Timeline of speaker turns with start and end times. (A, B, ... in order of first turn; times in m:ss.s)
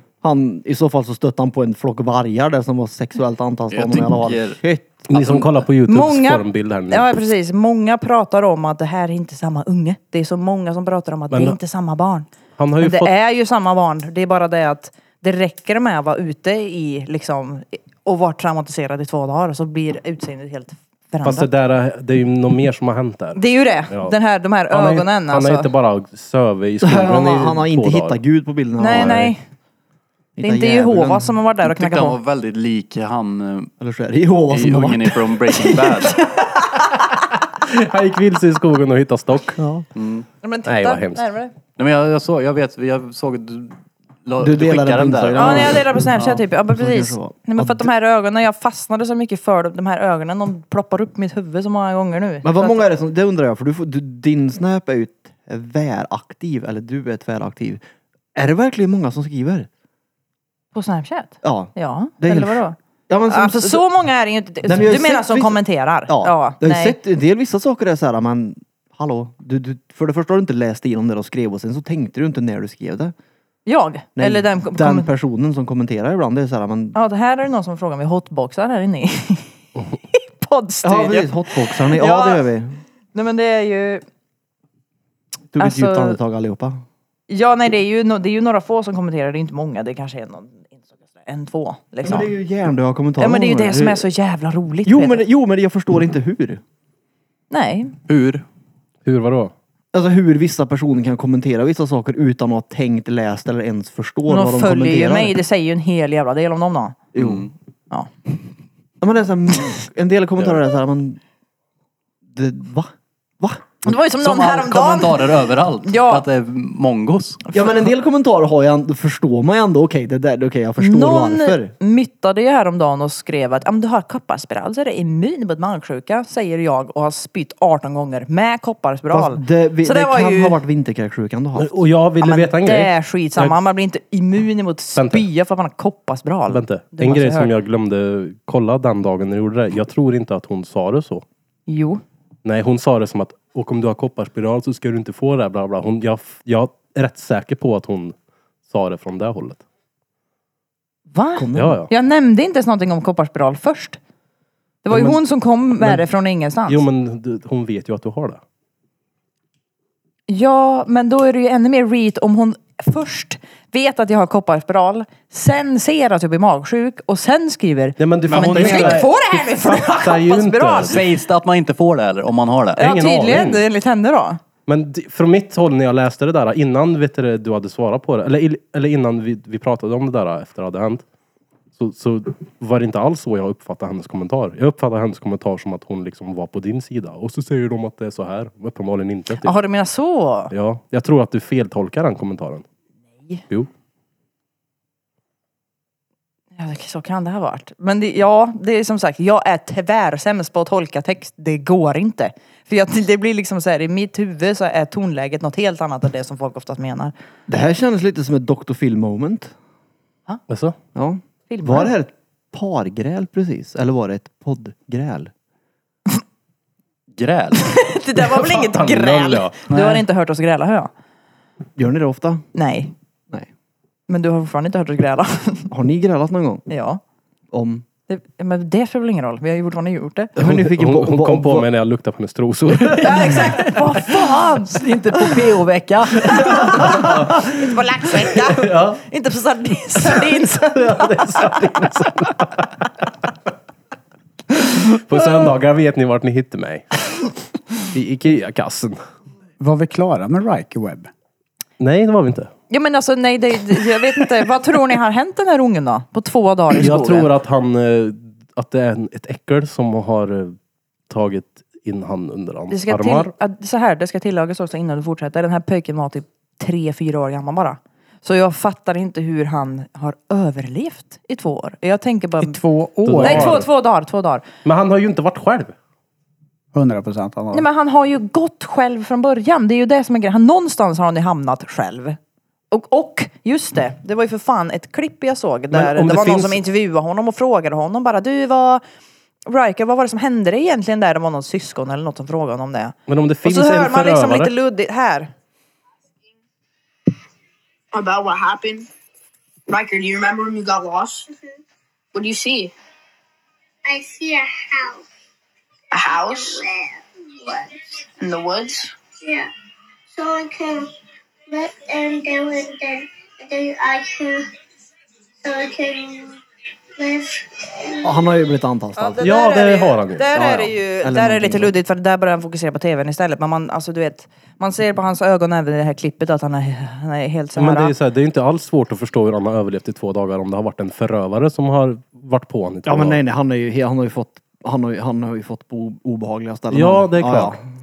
0:00.2-0:05.4 A
0:03.7-0:04.6 B
0:05.1-0:07.1 C
0:05.8-0:21.5 D
0:11.3-0:11.6 C
0:12.6-0:13.1 C
0:21.2-0:24.1 C
0:23.3-0:25.7 D
0:24.7-0:28.2 C
0:26.8-0:29.2 A
0:28.8-0:29.4 D
0:28.9-0:29.3 C
0:30.4-0:31.4 A
0:30.4-0:32.2 D
0:31.7-0:33.7 B
0:33.8-0:35.3 A
0:34.5-0:36.2 B
0:36.0-0:36.4 D
0:37.6-0:39.6 C
0:39.6-0:39.8 A
0:39.9-0:40.3 B
0:40.4-0:41.5 D
0:40.6-0:41.2 C
0:41.8-0:46.3 B
0:44.4-0:47.9 A
0:45.3-0:52.8 D
0:52.4-0:57.8 A
0:58.3-0:59.7 A
1:00.7-1:02.8 D
1:01.4-1:03.8 A
1:03.3-1:07.0 D
1:04.6-1:13.1 A
1:13.6-1:15.1 D
1:14.2-1:17.0 A
1:16.9-1:19.5 D
1:20.1-1:22.4 D
1:20.8-1:22.8 A
1:23.1-1:24.0 D
1:25.5-1:26.8 A
1:25.6-1:26.2 D
1:27.3-1:32.3 D
1:32.0-1:34.0 A
1:33.2-1:35.2 D
1:34.8-1:36.6 A
1:37.5-1:37.9 D
1:38.1-1:38.4 B
1:39.0-1:39.5 C
1:39.9-1:45.4 A
1:44.3-1:47.0 D
1:47.1-1:47.5 A
1:47.2-1:47.5 B
1:49.0-1:51.2 A
1:52.3-1:53.8 A
1:53.8-1:55.3 D
1:54.2-1:57.4 B
1:55.8-1:56.2 D
1:57.5-2:01.7 A
2:00.8-2:10.6 D
2:09.1-2:11.7 A
2:11.6-2:13.5 C
2:12.2-2:17.5 D
2:14.9-2:15.3 C
2:16.5-2:21.2 C
2:21.7-2:22.0 D
2:22.4-2:28.1 C
2:28.7-2:29.6 C
2:31.1-2:34.0 D
2:31.4-2:31.8 A
2:31.5-2:31.9 C
2:34.8-2:36.8 D
2:34.9-2:35.2 C
2:35.8-2:36.0 C
2:36.6-2:38.4 C
2:40.3-2:51.0 D
2:48.0-2:51.0 C
2:48.3-2:49.1 B
2:50.8-2:52.8 B
2:52.8-2:53.6 C
2:52.8-2:54.4 D
2:54.7-3:01.0 C
3:01.8-3:09.5 C
3:09.4-3:10.5 D
3:10.5-3:12.6 C
3:16.6-3:27.1 D
3:27.5-3:29.5 A
3:30.5-3:30.8 C
3:30.9-3:35.3 A
3:31.5-3:31.9 D
3:37.1-3:37.7 B
3:37.6-3:40.9 D
3:38.3-3:39.6 C
3:39.7-3:40.0 E
3:41.8-3:42.4 A
3:42.5-3:42.9 D
3:44.1-3:45.7 D
3:45.7-3:46.7 A
3:46.7-3:47.0 D
3:47.5-3:47.8 A
3:48.1-3:50.3 D
3:50.4-3:53.7 C
3:50.4-3:51.7 A
3:53.0-3:55.4 D
3:54.8-3:57.0 E
3:56.2-4:01.6 D
3:56.3-3:57.5 C
3:58.6-3:59.0 C
4:00.1-4:02.7 C
4:04.5-4:07.3 C
4:07.9-4:09.0 C
4:09.6-4:11.1 E
4:11.8-4:12.5 C
4:12.7-4:17.3 D
4:16.7-4:20.6 C
4:21.1-4:23.3 C
4:22.7-4:32.6 D
4:32.4-4:33.6 E
4:33.0-4:33.7 C
4:33.2-4:34.4 D
4:34.6-4:35.7 C
4:36.7-4:37.6 E
4:37.5-4:42.2 D
4:42.7-4:48.8 D
4:45.7-4:46.6 C
4:49.4-4:55.3 D
4:53.1-4:54.5 C
4:57.9-4:58.9 F
4:59.7-5:01.2 F
5:01.3-5:01.6 G
5:02.1-5:02.7 F
5:03.8-5:05.0 G
5:05.9-5:06.6 F
5:06.1-5:07.8 G
5:08.2-5:08.9 F
5:09.2-5:09.5 G
5:10.1-5:10.9 G
5:11.5-5:14.5 G
5:15.4-5:16.4 G
5:17.0-5:18.2 G
5:18.0-5:19.3 A
5:19.0-5:27.9 D
5:19.2-5:20.4 C
5:20.3-5:21.7 A
5:27.6-5:33.2 C
5:32.8-5:37.6 A
5:36.7-5:37.6 C